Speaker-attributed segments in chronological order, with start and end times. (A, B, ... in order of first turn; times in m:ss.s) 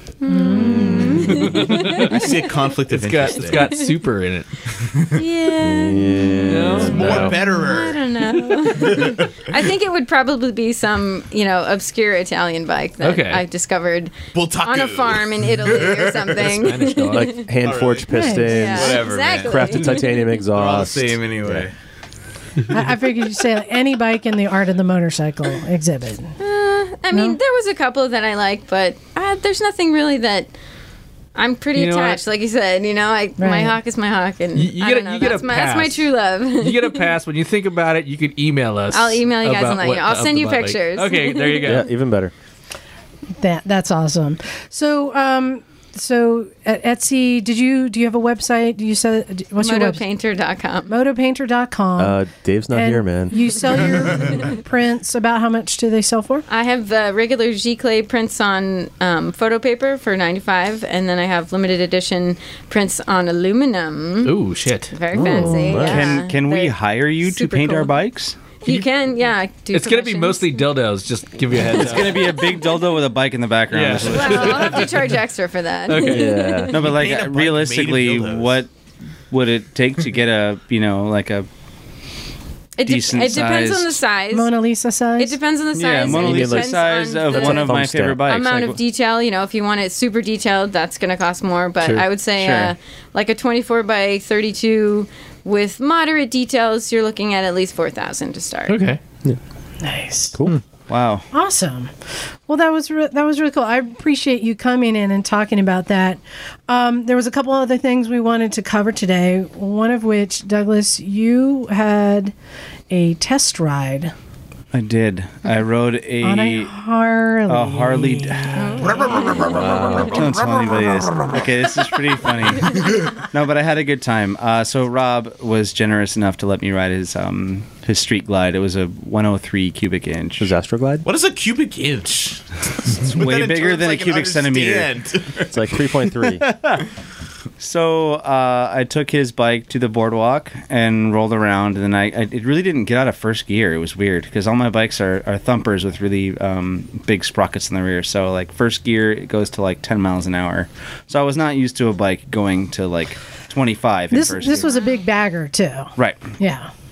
0:00.2-0:02.5 A
0:00.3-0:01.1 B
0:00.5-0:02.3 C
0:01.8-0:03.8 D
0:02.9-0:04.9 C
0:03.6-0:04.0 A
0:05.0-0:05.2 D
0:05.1-0:17.5 A
0:05.6-0:07.3 E
0:06.5-0:07.4 C
0:06.8-0:08.0 D
0:08.9-0:09.5 D
0:13.0-0:13.4 C
0:14.3-0:16.4 D
0:16.4-0:17.4 C
0:17.0-0:21.7 E
0:17.6-0:19.8 D
0:18.1-0:18.7 B
0:18.5-0:20.2 A
0:20.4-0:21.7 D
0:22.7-0:26.4 B
0:26.4-0:30.5 A
0:27.1-0:27.4 B
0:31.4-0:37.1 A
0:31.7-0:32.2 C
0:33.4-0:33.8 B
0:34.5-0:41.9 C
0:38.9-0:41.8 A
0:41.6-0:42.3 E
0:43.4-0:50.0 B
0:49.6-0:51.0 A
0:50.9-0:52.2 B
0:52.0-0:53.4 E
0:52.7-0:56.4 B
0:56.5-1:04.4 A
1:04.2-1:05.0 C
1:04.9-1:07.9 A
1:05.1-1:06.2 E
1:05.4-1:08.5 F
1:08.6-1:10.7 A
1:09.7-1:12.4 C
1:11.7-1:14.8 F
1:13.7-1:15.1 C
1:14.0-1:16.7 A
1:15.9-1:16.7 C
1:16.0-1:16.9 E
1:16.7-1:18.7 F
1:16.8-1:18.6 D
1:19.3-1:21.5 F
1:22.8-1:24.5 A
1:22.8-1:24.0 F
1:24.3-1:25.4 B
1:25.2-1:38.8 A
1:25.7-1:28.8 F
1:26.0-1:26.8 E
1:27.3-1:28.3 E
1:32.4-1:32.7 F
1:38.7-1:39.0 C
1:39.8-1:40.4 B
1:40.3-1:40.6 E
1:40.9-1:41.3 F
1:41.3-1:41.9 B
1:42.5-1:52.3 B
1:52.9-1:54.1 B
1:54.7-1:56.7 F
1:56.2-1:58.9 B
1:57.5-2:10.5 F
1:58.8-1:59.5 A
1:58.8-1:59.7 D
1:59.4-2:00.4 E
2:10.4-2:11.1 E
2:11.0-2:15.6 D
2:13.0-2:15.0 F
2:15.5-2:16.4 E
2:16.3-2:16.8 F
2:17.6-2:34.8 F
2:34.1-2:36.7 B
2:36.0-2:36.3 F